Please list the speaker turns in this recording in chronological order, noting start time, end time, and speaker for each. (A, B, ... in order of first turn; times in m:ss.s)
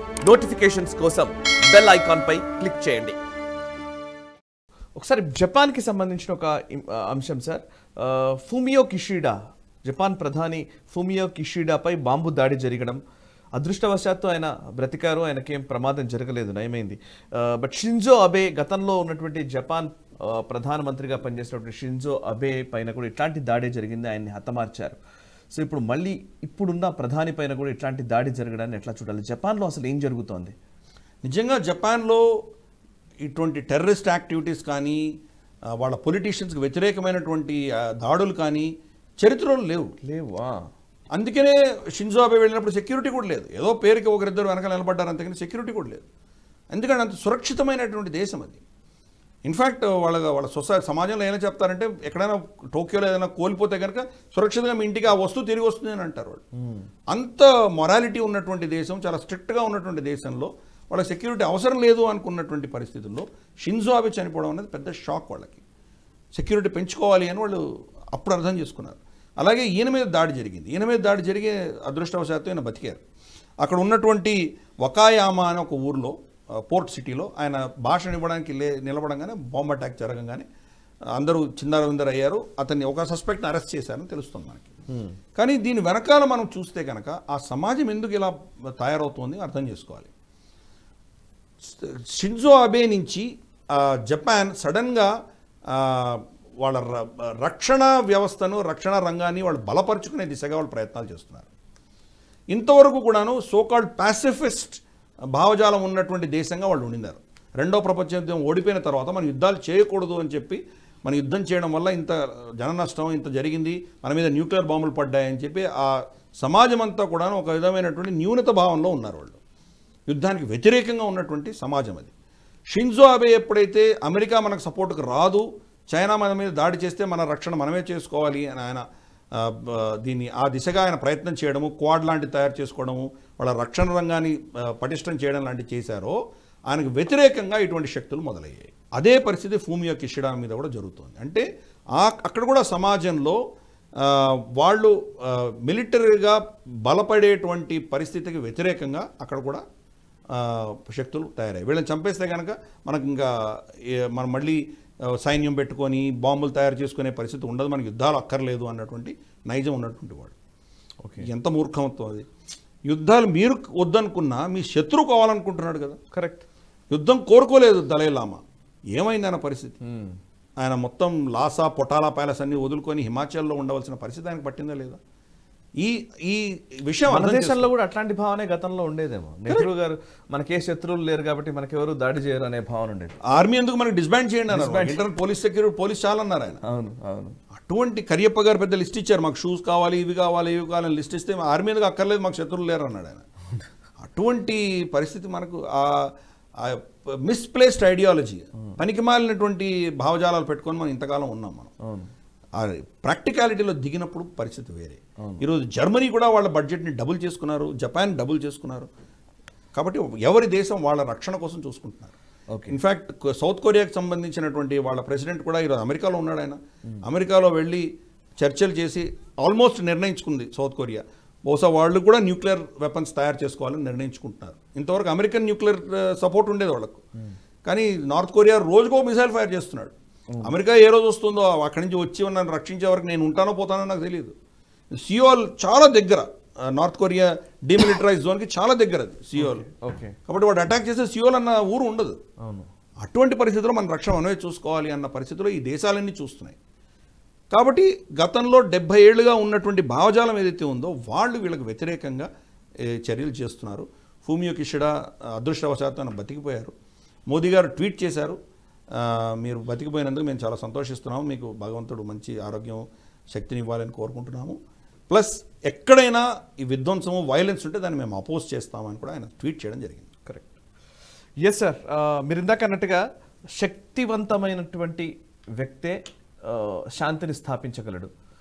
0:00.2-0:03.2 A
0:05.0-0:13.0 A
0:13.6-0:25.0 A
0:25.5-0:30.5 A
0:31.2-0:32.2 B
0:33.2-0:35.0 B
0:35.8-0:39.9 B
0:40.0-0:40.7 A
0:41.1-0:46.0 B
0:46.7-0:48.6 B
0:49.4-0:56.4 B
0:56.6-0:56.9 A
0:57.1-1:05.6 B
1:06.3-1:13.0 B
1:13.6-1:20.5 B
1:21.1-1:24.7 B
1:24.9-1:25.2 A
1:25.4-1:30.1 B
1:31.6-1:35.1 B
1:35.7-1:41.5 B
1:42.5-1:44.8 B
1:45.3-1:59.4 B
2:00.1-2:02.1 B
2:02.7-2:16.2 B
2:16.7-2:21.4 B
2:22.0-2:23.4 B
2:24.0-2:29.6 B
2:30.4-2:34.6 B
2:35.2-2:40.4 B
2:41.2-2:42.2 B
2:42.9-2:46.0 B
2:46.1-2:46.4 A
2:46.9-2:48.4 B
2:48.9-2:49.8 B
2:49.8-2:50.2 A
2:50.6-2:55.0 B
2:55.8-2:57.7 B
2:57.1-3:03.2 A
3:03.2-3:06.6 B
3:04.5-3:05.0 A
3:06.6-3:07.4 A
3:07.5-3:13.2 B
3:14.0-3:21.7 B
3:21.8-3:22.1 A
3:22.6-3:28.9 B
3:29.7-3:32.2 B
3:32.5-3:32.8 A
3:32.7-3:37.9 B
3:38.4-3:47.0 B
3:47.6-3:54.3 B
3:54.9-3:59.7 B
3:59.4-4:00.2 A
4:00.3-4:02.2 B
4:02.4-4:02.7 A
4:03.0-4:06.6 B
4:07.5-4:12.3 B
4:12.9-4:16.7 B
4:17.3-4:18.4 B
4:18.9-4:24.6 B
4:25.1-4:30.1 B
4:31.4-4:33.0 A
4:33.6-4:38.1 A